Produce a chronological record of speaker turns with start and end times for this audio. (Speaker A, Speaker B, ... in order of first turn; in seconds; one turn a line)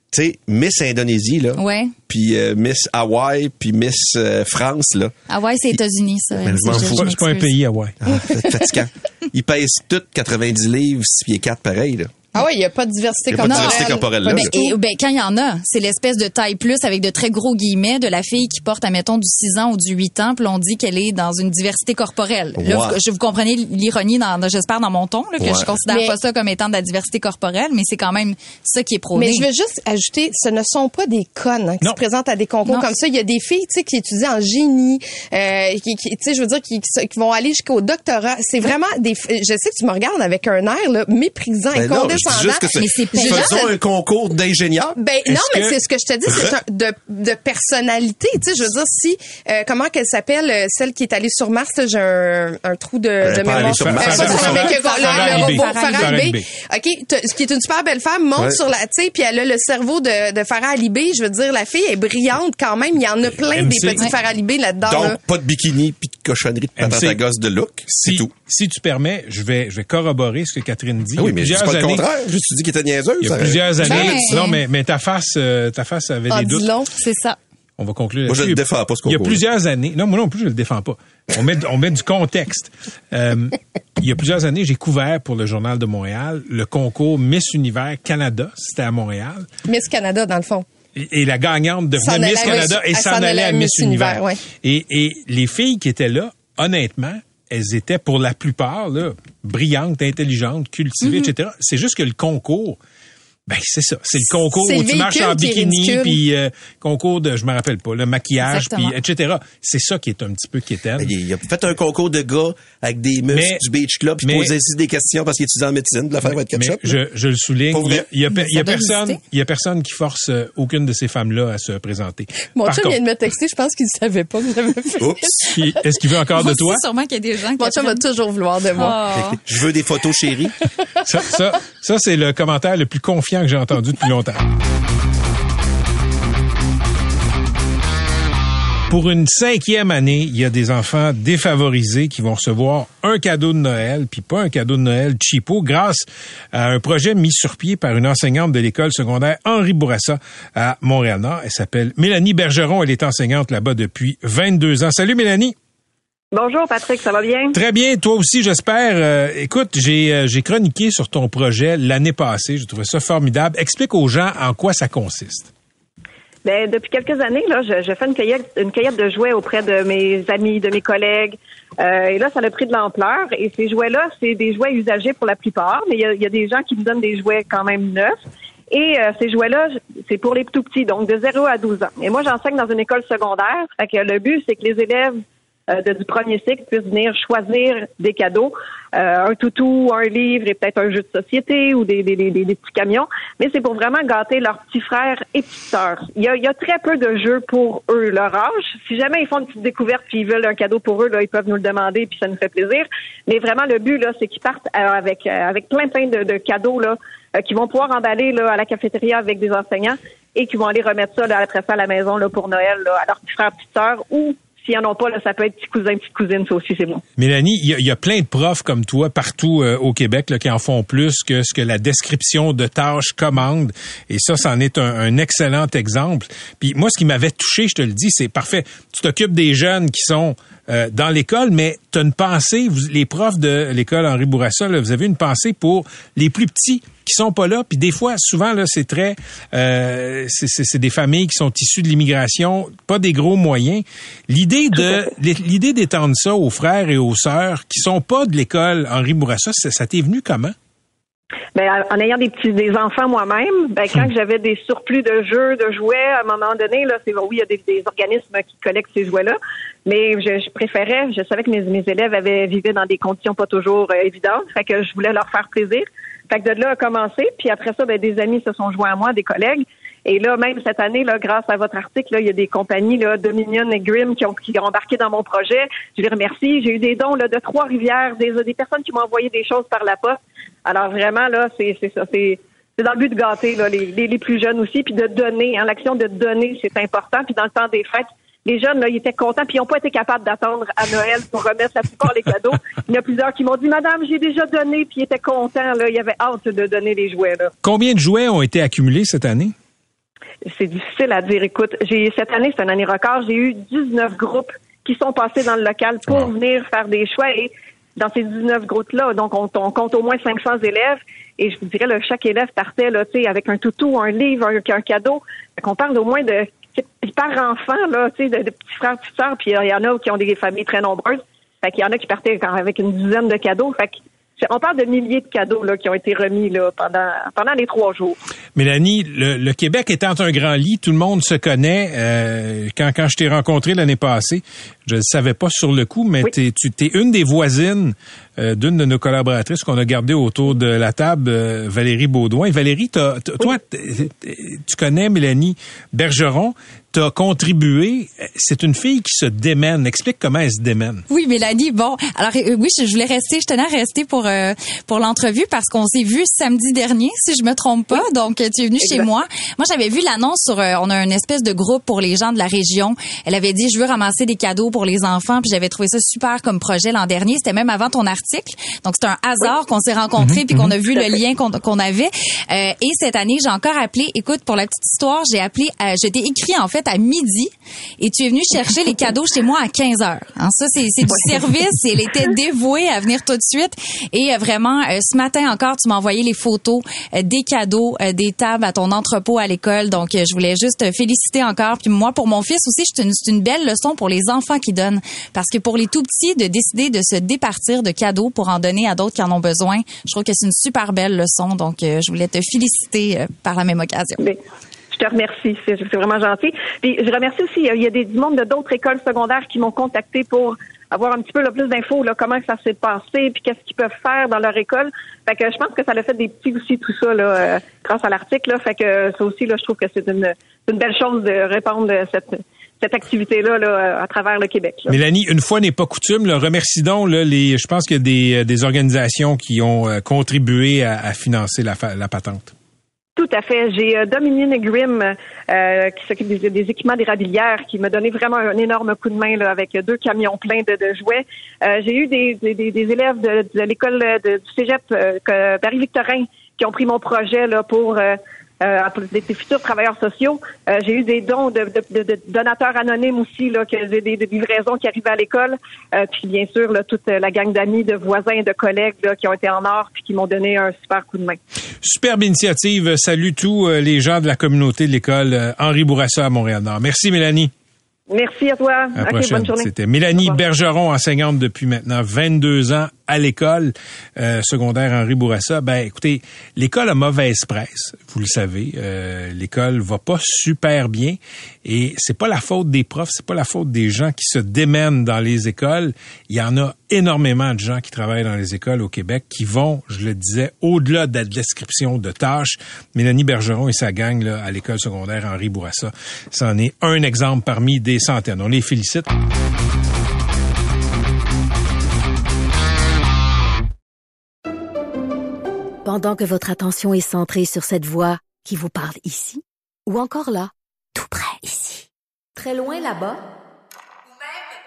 Speaker A: 0.1-5.1
Speaker B: 1.6-1.9
Speaker B: 5.3-7.5
Speaker A: 6.4-7.2
Speaker C: 6.7-8.0
Speaker A: 8.1-12.1
Speaker D: 12.3-14.8
Speaker A: 13.3-14.5
Speaker B: 13.4-29.5
Speaker A: 22.6-23.0
Speaker A: 25.4-25.8
Speaker D: 25.9-26.2
Speaker D: 29.1-43.8
Speaker A: 41.7-45.0
Speaker B: 42.8-43.6
Speaker D: 45.0-65.2
Speaker C: 45.2-45.8
Speaker A: 46.3-46.5
Speaker A: 53.2-54.7
Speaker C: 53.3-56.5
Speaker B: 54.1-56.2
Speaker C: 63.5-64.1
Speaker A: 64.8-68.3
Speaker C: 66.8-67.2
Speaker C: 67.9-72.0
Speaker A: 71.2-74.2
Speaker C: 73.2-76.7
Speaker B: 73.8-74.6
Speaker D: 74.0-74.4
Speaker D: 76.3-76.9
Speaker B: 77.0-77.4
Speaker C: 77.8-89.5
Speaker A: 78.3-79.4
Speaker D: 89.7-90.7
Speaker C: 91.0-102.8
Speaker D: 92.0-94.4
Speaker B: 101.0-101.3
Speaker C: 103.5-111.1
Speaker D: 104.3-106.2
Speaker B: 108.4-109.0
Speaker A: 111.0-117.0
Speaker C: 113.3-113.6
Speaker C: 114.2-114.5
Speaker C: 116.2-123.0
Speaker A: 117.7-118.1
Speaker B: 118.3-119.2
Speaker D: 122.6-125.6
Speaker A: 125.0-125.4
Speaker C: 125.5-126.8
Speaker B: 126.4-128.0
Speaker D: 127.6-129.0
Speaker B: 128.8-129.4
Speaker A: 129.1-130.6
Speaker C: 131.0-134.4
Speaker C: 138.9-155.6
Speaker E: 156.3-157.6
Speaker C: 157.5-165.5
Speaker E: 166.4-178.2
Speaker E: 178.7-217.0
Speaker C: 217.2-250.5
Speaker E: 251.6-297.5
Speaker C: 297.6-299.5
Speaker E: 300.5-328.2
Speaker C: 328.6-351.1
Speaker B: 351.1-404.3
Speaker C: 370.2-370.7
Speaker E: 404.9-425.0
Speaker C: 424.9-432.5
Speaker E: 433.2-461.4
Speaker C: 461.8-467.5
Speaker E: 468.1-470.4
Speaker C: 469.0-499.1
Speaker F: 505.9-513.1